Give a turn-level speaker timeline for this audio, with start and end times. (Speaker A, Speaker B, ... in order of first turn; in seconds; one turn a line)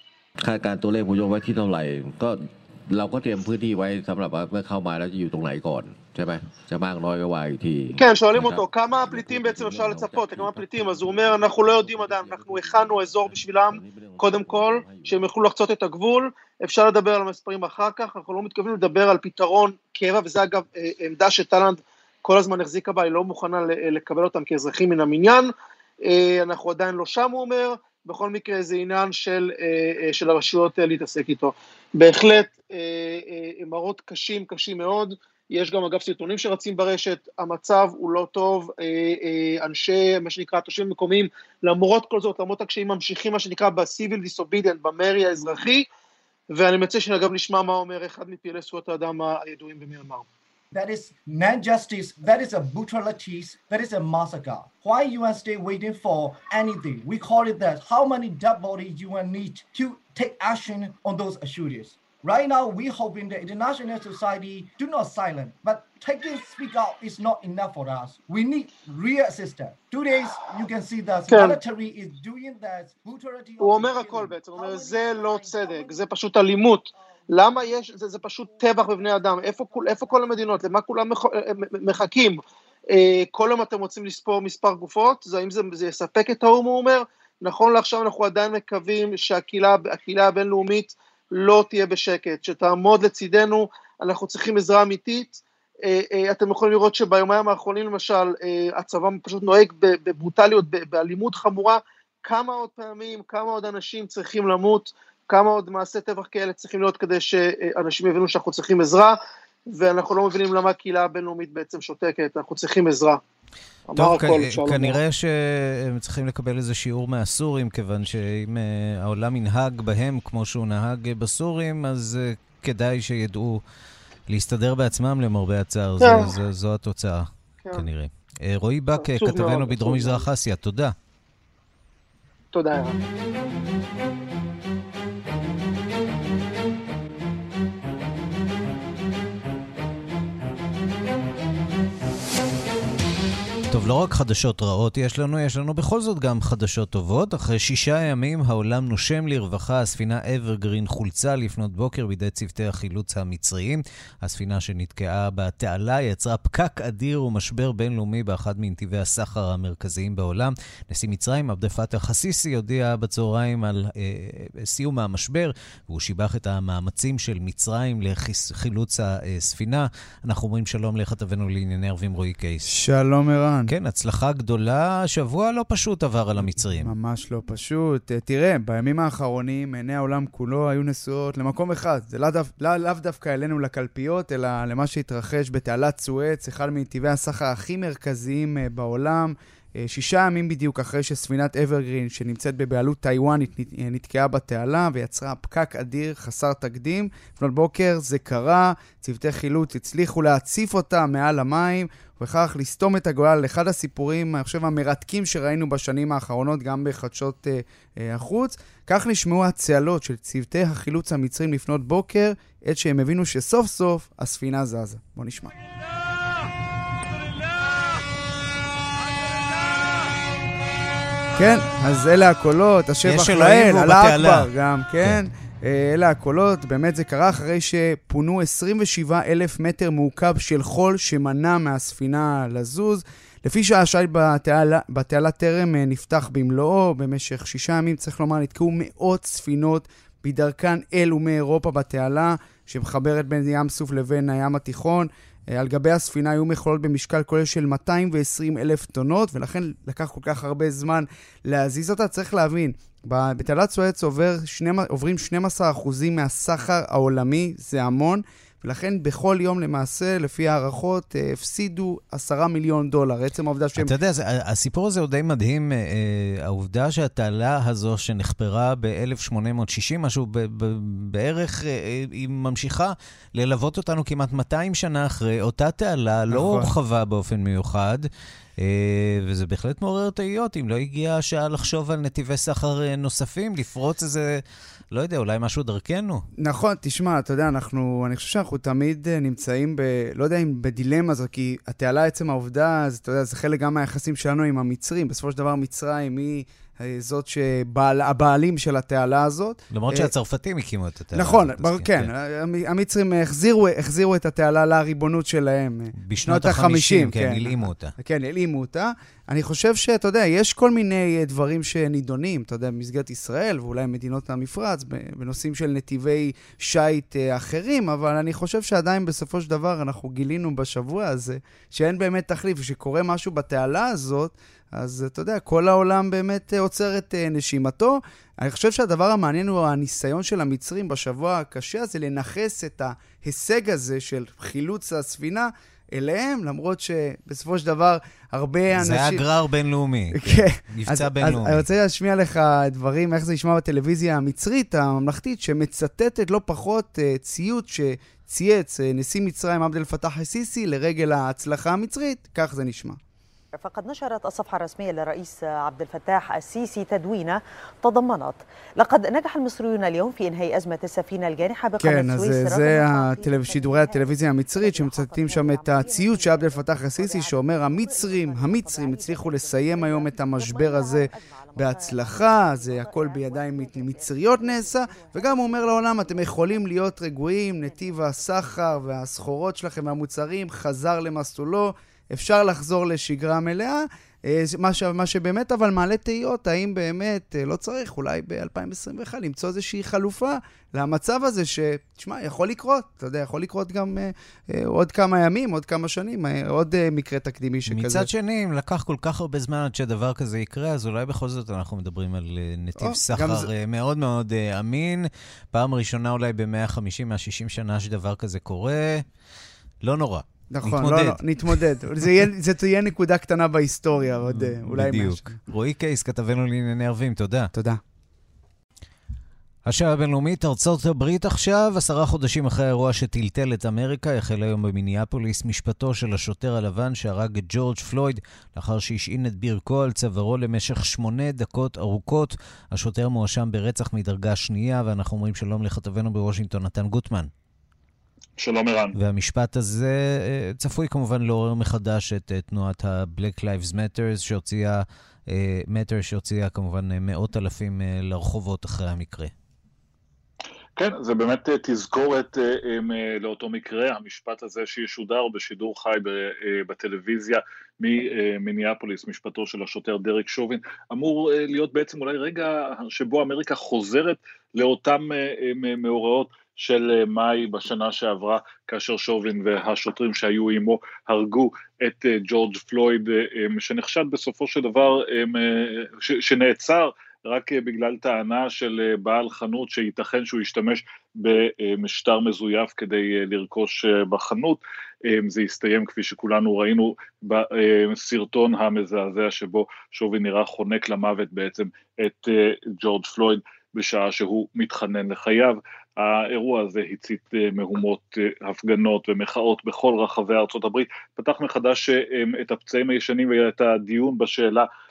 Speaker A: 0.4-15.3
Speaker B: 8.0-25.5
Speaker B: 26.0-45.9
Speaker B: 46.5-50.3
Speaker C: 50.7-75.9
Speaker B: 71.3-71.6
Speaker B: 73.6-109.2
Speaker B: 109.7-113.2
Speaker B: 113.9-115.0
Speaker D: 114.0-123.6
Speaker D: 124.3-130.9
Speaker B: 126.0-126.3
Speaker B: 128.9-130.3
Speaker B: 132.5-133.0
Speaker D: 143.7-172.7
Speaker E: 172.7-173.7
Speaker D: 173.7-176.9
Speaker E: 176.4-215.5
Speaker E: 221.4-263.9
Speaker D: 223.1-224.5
Speaker D: 263.8-278.1
Speaker E: 276.3-276.7
Speaker D: 278.6-286.3
Speaker E: 286.4-300.1
Speaker D: 299.7-302.1
Speaker E: 301.1-339.2
Speaker D: 306.1-307.9
Speaker D: 338.8-341.6
Speaker E: 340.1-353.0
Speaker F: 353.6-378.6
Speaker E: 361.8-398.1
Speaker D: 397.7-409.1
Speaker E: 402.8-403.5
Speaker D: 409.8-411.2
Speaker E: 410.5-415.4
Speaker D: 414.3-417.5
Speaker E: 417.5-417.8
Speaker D: 419.7-437.3
Speaker G: 438.4-438.9
Speaker D: 439.0-449.3
Speaker G: 450.8-504.7